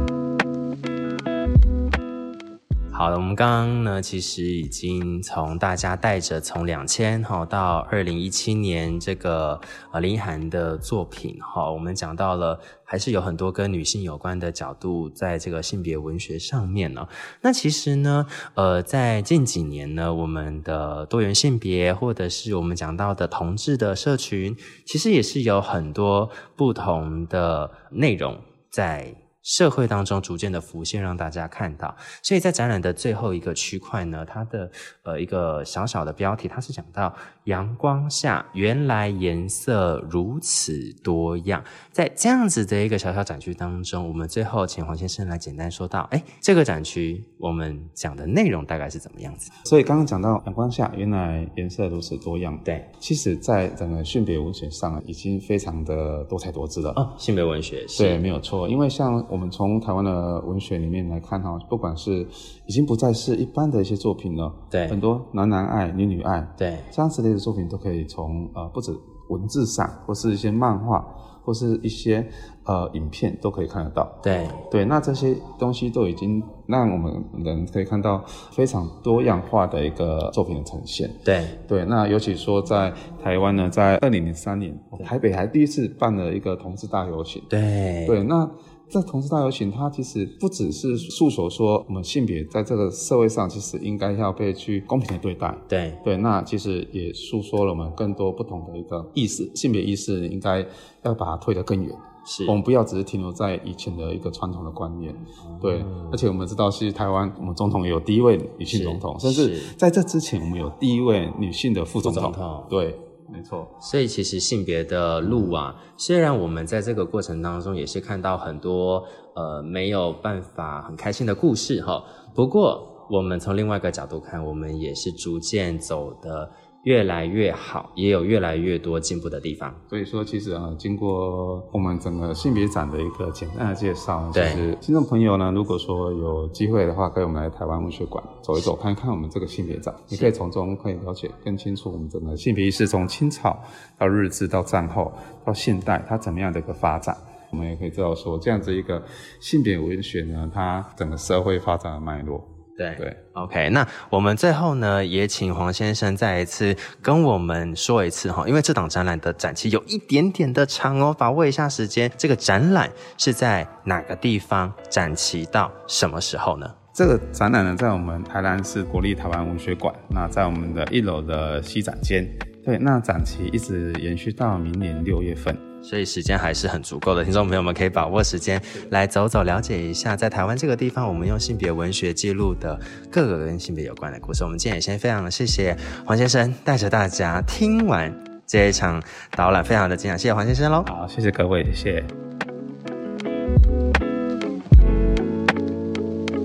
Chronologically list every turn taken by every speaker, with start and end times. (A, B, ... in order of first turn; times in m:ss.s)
0:02.9-0:49.6 A
0:49.6-0:57.0 B
0:57.0-0:58.2 A
0:58.0-1:27.5 B
1:04.7-1:05.0 A
1:06.6-1:06.9 A
1:14.2-1:14.6 A
1:21.2-1:21.6 A
1:27.5-1:28.2 A
1:28.0-1:53.8 B
1:35.7-1:36.0 A
1:42.3-1:42.6 A
1:45.4-1:46.2 A
1:48.7-1:49.8 A
1:52.0-1:52.7 A
1:53.8-2:09.8 A
2:09.9-2:33.2 B
2:14.3-2:14.6 A
2:32.8-2:46.8 A
2:47.0-2:55.6 B
2:55.8-3:10.9 A
3:10.9-3:12.1 B